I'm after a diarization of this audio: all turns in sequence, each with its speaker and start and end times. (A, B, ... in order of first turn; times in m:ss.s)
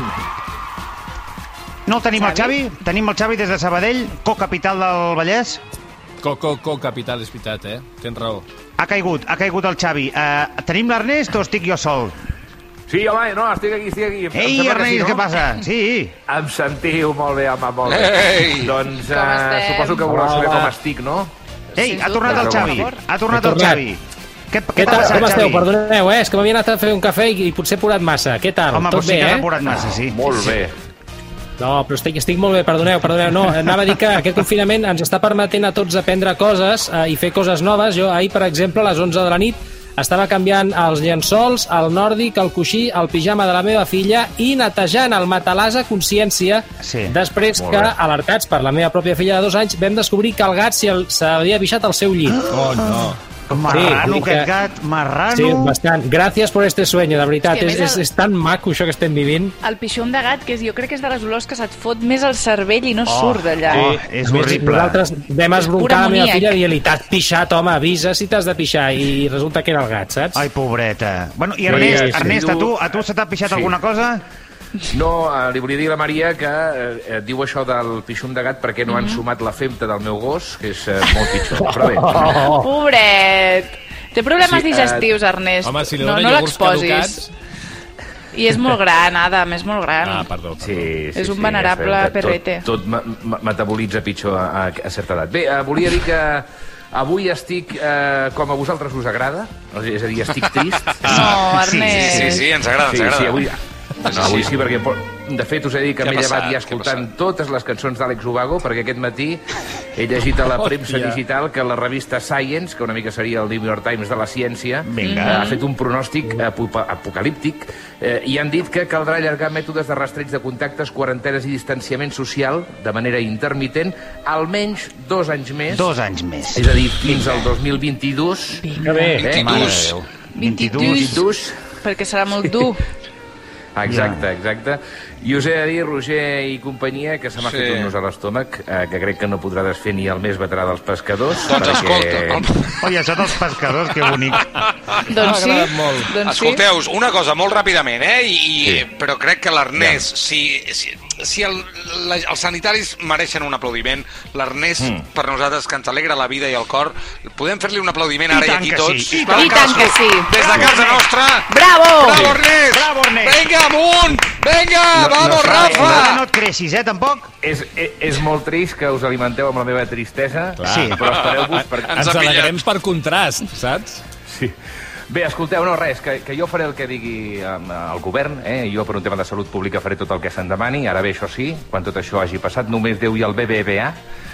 0:01.8-0:05.6 A
0:02.2-0:02.5 B
0:06.2-0:08.4 C
0:08.8-0:12.1 A
0:12.9-0:15.3 D
0:14.3-0:16.1 A
0:16.3-0:21.3 D
0:19.1-0:20.0 B
0:20.1-0:20.7 E
0:21.8-0:25.6 A
0:21.8-0:23.0 B
0:22.2-0:22.7 D
0:23.3-0:23.8 E
0:24.8-0:29.5 E
0:28.7-0:30.2 A
0:29.7-0:30.7 D
0:31.6-0:52.4 E
0:46.8-0:47.2 A
0:47.5-0:47.9 D
0:52.6-0:55.8 A
0:53.7-0:54.5 E
0:55.3-0:59.5 E
0:57.5-0:58.0 B
0:59.6-1:03.9 B
1:03.0-1:05.0 A
1:03.7-1:10.4 E
1:05.7-1:06.6 B
1:10.3-1:14.2 A
1:11.7-1:12.7 D
1:13.4-1:13.7 D
1:14.9-1:22.5 D
1:18.9-1:19.2 B
1:22.1-1:22.5 E
1:22.5-1:27.3 B
1:24.4-1:25.1 D
1:25.8-1:27.0 F
1:26.0-1:27.0 C
1:28.3-1:30.3 B
1:30.1-1:30.7 C
1:30.6-1:49.4 D
1:31.1-1:32.7 B
1:41.1-1:42.4 A
1:41.1-1:42.5 B
1:42.5-1:43.3 F
1:50.0-2:05.9 D
1:54.8-1:55.4 A
1:55.0-1:55.6 B
2:05.7-2:06.6 A
2:06.5-2:08.6 D
2:08.5-2:09.2 B
2:08.8-2:09.2 E
2:09.2-2:09.7 D
2:09.3-2:09.6 F
2:09.3-2:11.2 A
2:10.3-2:11.2 B
2:10.7-2:11.5 D
2:11.8-2:12.8 B
2:13.8-2:22.5 D
2:13.9-2:14.2 A
2:17.4-2:17.8 F
2:21.5-2:22.4 F
2:22.8-2:24.5 A
2:25.1-2:26.6 B
2:25.2-2:41.4 F
2:28.6-2:28.9 D
2:29.7-2:30.1 D
2:34.8-2:35.0 D
2:38.3-2:41.0 A
2:39.2-2:40.5 B
2:40.4-2:40.8 D
2:41.5-2:42.3 B
2:42.0-2:46.1 F
2:42.1-2:42.4 D
2:42.6-2:43.5 A
2:44.9-2:46.1 D
2:45.2-2:47.3 A
2:47.4-2:52.1 D
2:50.6-2:51.0 A
2:51.9-2:52.7 F
2:52.0-2:53.9 C
2:54.3-2:54.5 D
2:55.1-3:04.0 D